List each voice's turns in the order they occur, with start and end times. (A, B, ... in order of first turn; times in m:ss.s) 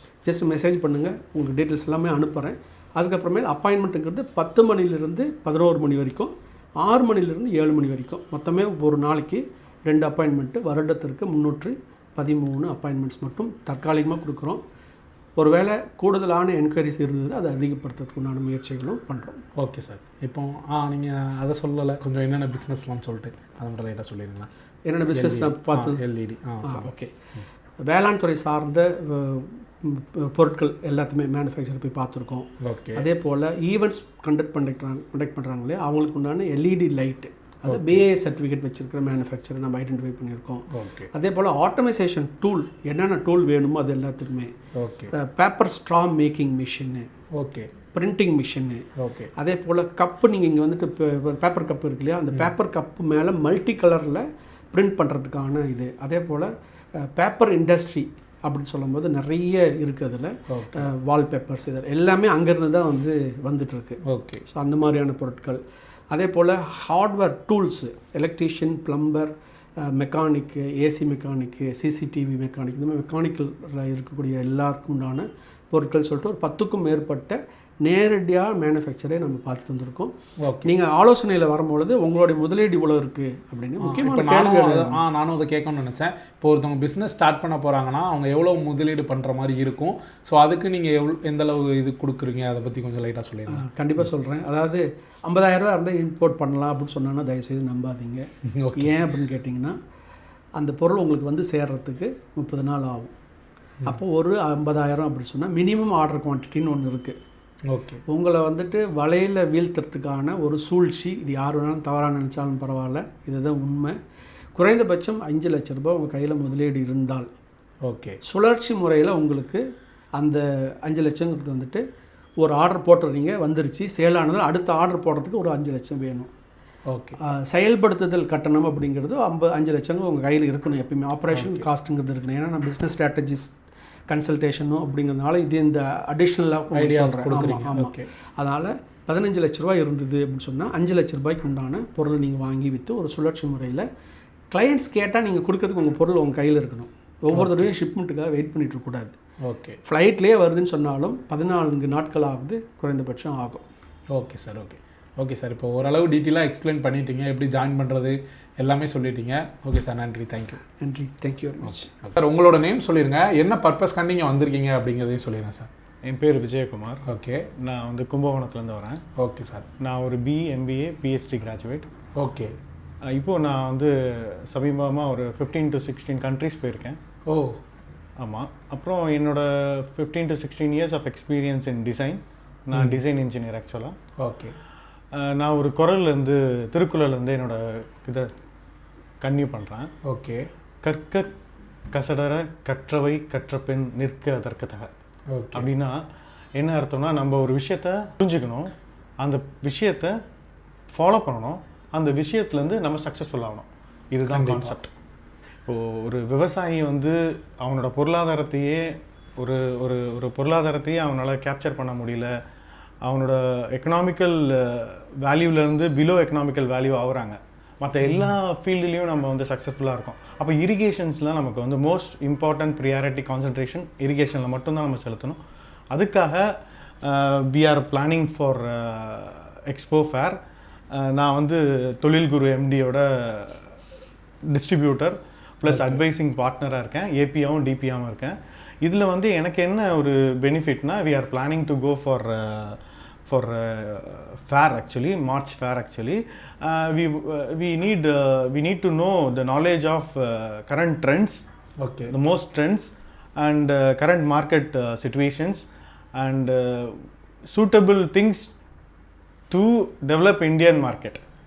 0:00.2-0:14.6 A
0:15.4-0:19.4 A
0:19.6-0:24.5 B
0:24.8-0:26.0 A
0:25.1-0:27.4 B
0:26.6-0:27.1 A
0:27.8-0:44.5 A
0:32.6-0:33.1 B
0:37.6-0:38.0 B
0:40.7-0:41.1 B
0:44.8-0:45.1 B
0:45.1-0:47.1 A
0:47.4-0:47.7 B
0:47.9-1:05.6 A
0:49.0-0:49.3 B
1:00.5-1:00.9 B
1:04.1-1:04.4 B
1:06.1-1:20.1 A
1:20.4-1:20.7 B
1:20.6-1:25.0 A
1:23.8-1:33.6 B
1:33.5-1:38.2 A
1:38.5-1:39.0 B
1:38.8-1:39.8 A
1:40.6-1:43.1 A
1:43.8-1:47.2 A
1:47.7-1:48.0 B
1:48.1-1:54.0 A
1:54.6-1:57.3 A
1:57.8-1:58.2 B
1:58.2-1:59.6 A
2:00.2-2:01.8 A
2:02.4-2:06.3 A
2:06.9-2:07.2 B
2:07.2-2:13.5 A
2:11.3-2:11.6 B
2:14.1-2:23.8 A
2:16.7-2:18.1 B
2:24.5-2:29.1 A
2:27.3-2:27.7 B
2:29.4-2:29.8 B
2:29.8-2:33.6 A
2:34.1-2:40.6 B
2:40.8-2:41.9 A
2:41.7-2:45.7 B
2:46.0-2:47.0 C
2:47.1-2:47.5 B
2:47.6-2:49.0 C
2:49.2-2:49.6 B
2:49.8-2:51.9 C
2:52.2-2:52.5 B
2:53.1-2:57.0 C
2:57.3-2:57.6 B
2:58.2-3:04.0 C
3:02.7-3:03.0 B
3:04.2-3:04.6 B
3:05.1-3:08.3 C
3:09.2-3:09.9 C
3:10.1-3:10.5 B
3:10.8-3:11.3 C
3:11.9-3:14.9 C
3:15.3-3:15.7 B
3:15.5-3:16.0 C
3:16.6-3:20.1 C
3:20.9-3:24.9 C
3:24.3-3:24.8 B
3:25.6-3:32.3 C
3:33.0-3:45.4 C
3:38.0-3:38.3 B
3:45.9-3:46.5 C
3:47.0-3:50.4 C
3:51.0-3:53.8 C
3:54.5-4:11.4 C
3:55.7-3:56.0 B
4:11.8-4:12.1 B
4:12.1-4:15.6 C
4:16.2-4:18.5 C
4:19.5-4:21.2 C